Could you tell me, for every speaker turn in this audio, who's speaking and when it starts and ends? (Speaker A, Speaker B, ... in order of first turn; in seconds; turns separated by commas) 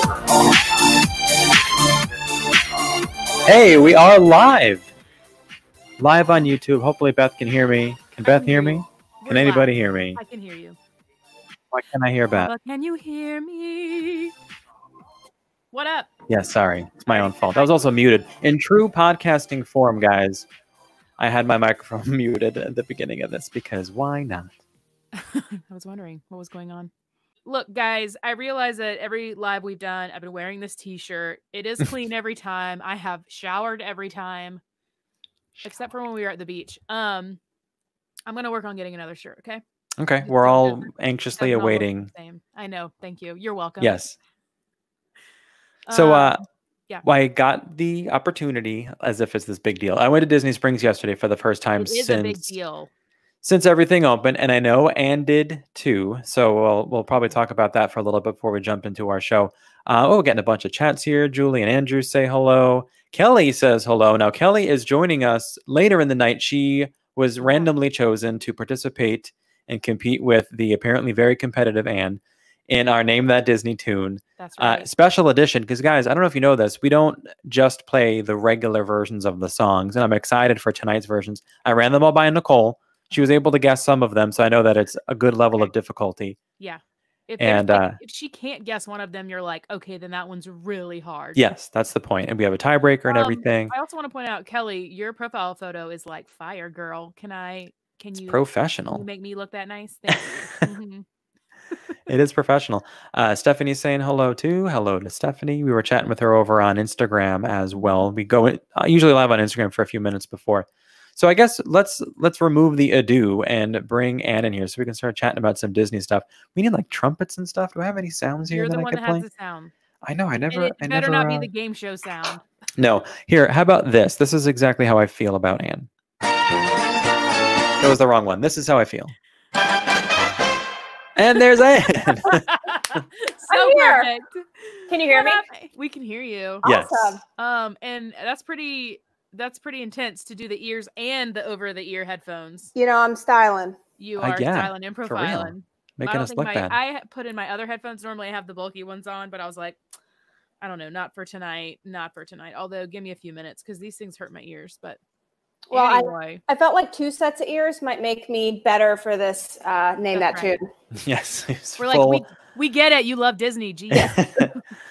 Speaker A: 3.4-4.9, Speaker A: 6.0-10.2, Speaker B: 8.2-10.8, Speaker A: 11.7-12.5, Speaker B: 12.3-14.3, Speaker B: 15.7-16.1, Speaker A: 16.3-20.4, Speaker B: 17.1-17.9, Speaker A: 21.2-24.5, Speaker B: 25.1-26.9, Speaker B: 27.4-34.6, Speaker B: 35.6-37.4, Speaker B: 38.3-39.6, Speaker A: 40.0-42.1, Speaker B: 40.2-40.9, Speaker B: 41.4-44.0, Speaker A: 43.8-44.1, Speaker B: 45.9-47.0, Speaker A: 45.9-46.4, Speaker A: 47.0-52.5, Speaker B: 51.8-52.9, Speaker A: 53.4-86.4, Speaker B: 67.4-67.7, Speaker B: 74.4-74.9, Speaker B: 83.1-83.4, Speaker B: 86.6-91.4, Speaker A: 87.4-88.0, Speaker A: 91.3-93.7, Speaker B: 93.1-101.0, Speaker A: 98.2-99.0, Speaker A: 100.1-100.6, Speaker A: 102.1-119.2, Speaker B: 107.8-108.1, Speaker B: 118.5-119.7, Speaker A: 120.0-121.5, Speaker B: 120.5-122.4, Speaker A: 122.8-125.9, Speaker A: 127.8-129.1, Speaker A: 131.2-133.0, Speaker B: 132.2-136.7, Speaker C: 133.5-134.1, Speaker C: 134.9-135.4, Speaker A: 136.6-137.2, Speaker C: 136.6-137.2, Speaker B: 137.3-142.7, Speaker C: 142.7-143.8, Speaker B: 144.0-149.8, Speaker A: 144.2-146.8, Speaker B: 150.6-155.0, Speaker C: 155.7-160.7, Speaker B: 155.7-156.4, Speaker B: 160.1-160.6, Speaker A: 160.9-162.2, Speaker B: 161.8-164.6, Speaker A: 163.9-164.5